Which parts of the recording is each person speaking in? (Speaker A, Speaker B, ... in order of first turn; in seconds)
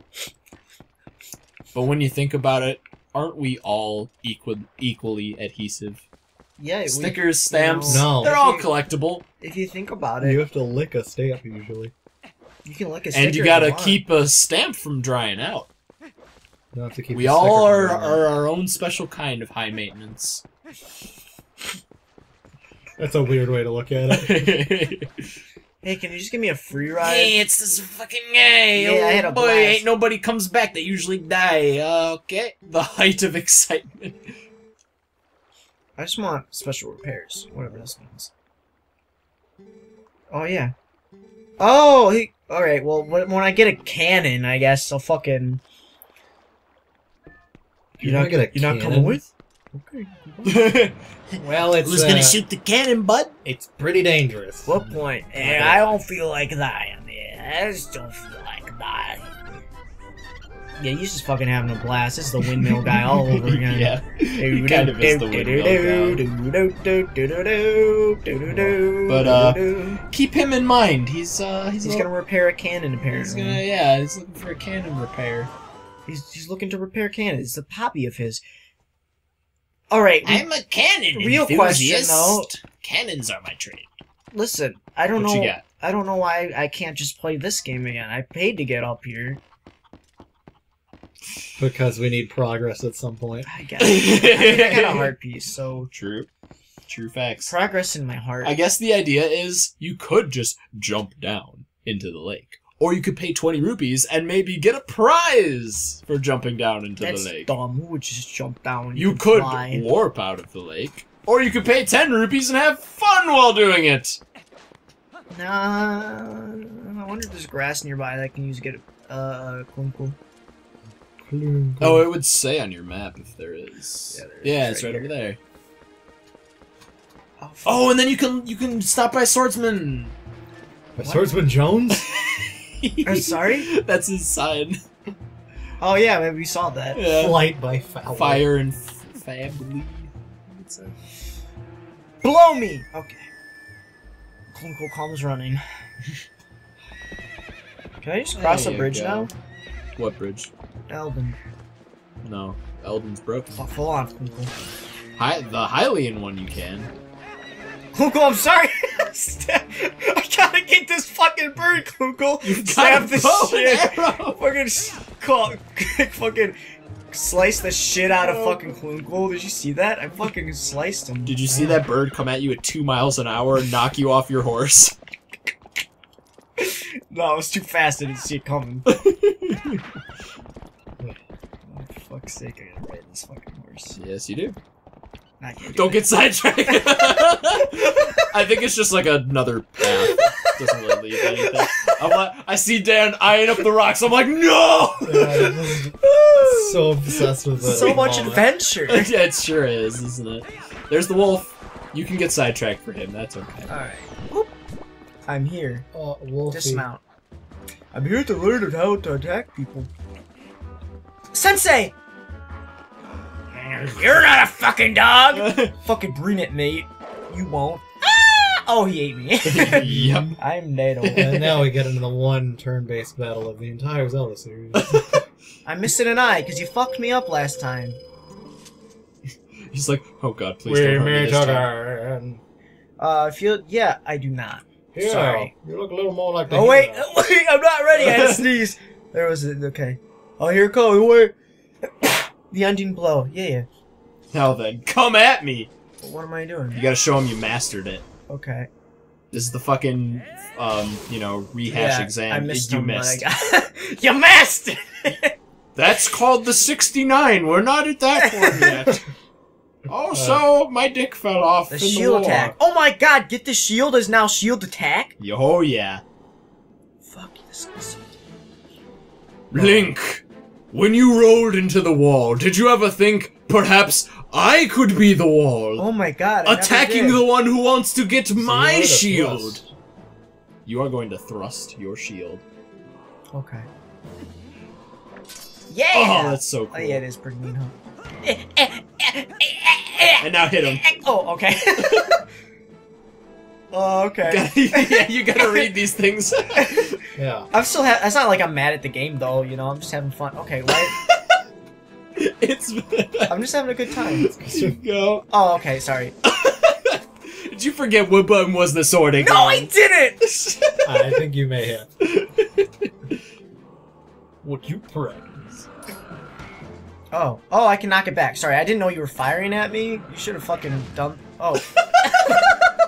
Speaker A: 1.7-6.0, 6.8-9.2, 13.1-15.7, 17.1-20.4, 24.1-25.1, 27.0-34.2, 50.4-50.9, 51.7-53.3, 55.4-55.9, 62.4-66.2, 69.0-72.1, 73.1-75.5, 80.2-83.9, 85.1-85.6, 93.8-95.1, 95.9-96.3, 96.9-97.5, 98.4-107.5, 108.9-114.2, 121.8-125.4, 127.6-130.1, 131.9-134.8, 136.9-137.4, 138.1-140.9, 148.3-149.3, 150.0-150.5, 152.2-153.5, 155.2-156.9, 162.4-164.4, 168.2-168.7, 171.2-174.9, 178.9-179.8, 183.9-184.6, 185.7-195.8, 197.1-198.1, 198.9-203.7, 215.3-215.7, 219.4-220.4, 221.1-221.7, 224.7-225.2, 229.7-231.7, 237.9-238.4, 244.3-245.7, 246.7-248.1, 249.3-253.2, 255.8-259.1, 259.9-262.5, 265.2-266.0, 269.5-275.9, 276.4-279.6, 280.6-282.4, 285.9-287.0, 290.2-290.8, 291.8-292.2, 294.2-296.9, 300.7-301.3, 302.2-303.4, 304.1-305.2, 306.3-309.7, 310.5-311.2, 312.0-312.9
Speaker B: 6.6-8.7, 9.4-10.4, 12.6-14.0, 25.8-27.4, 28.7-29.8, 36.0-38.3, 40.3-40.7, 41.6-45.6, 48.0-50.7, 54.6-59.3, 60.8-70.0, 71.8-73.6, 76.0-78.4, 79.9-80.5, 81.1-82.5, 84.3-89.4, 93.4-95.9, 97.5-98.6, 107.0-109.9, 115.3-120.2, 124.1-125.1, 127.4-127.9, 131.0-131.4, 133.0-133.7, 135.8-137.0, 142.2-143.3, 144.5-145.6, 148.0-149.3, 150.9-151.4, 153.6-154.5, 157.9-166.6, 167.1-171.3, 176.6-178.9, 181.6-184.0, 185.4-186.0, 186.7-188.4, 189.8-191.9, 196.3-196.8, 197.6-199.1, 203.7-204.5, 205.2-205.8, 206.5-207.0, 207.9-209.9, 211.3-211.9, 213.5-221.3, 225.6-228.0, 233.0-235.5, 236.5-243.7, 246.0-246.8, 248.3-248.7, 251.7-255.3, 258.2-258.9, 261.7-265.1, 267.0-268.1, 275.8-277.2, 283.3-283.7, 285.7-292.2, 293.7-295.7, 296.6-296.9, 297.5-300.9, 303.3-304.3, 305.3-306.1, 309.2-310.5, 317.1-322.6
Speaker C: 7.9-8.4, 10.2-11.9, 16.7-18.3, 23.0-24.5, 48.0-49.2, 51.4-52.4, 53.4-55.0, 68.5-68.8, 91.6-93.5, 121.2-122.1, 130.9-132.0, 137.2-138.4, 171.5-171.8, 195.1-198.4, 205.9-206.8, 219.8-220.3, 221.2-225.2, 230.7-232.4, 234.9-237.1, 260.1-260.4, 269.5-269.9, 278.4-279.7, 297.1-297.5, 304.5-304.7, 310.8-311.9, 314.4-315.6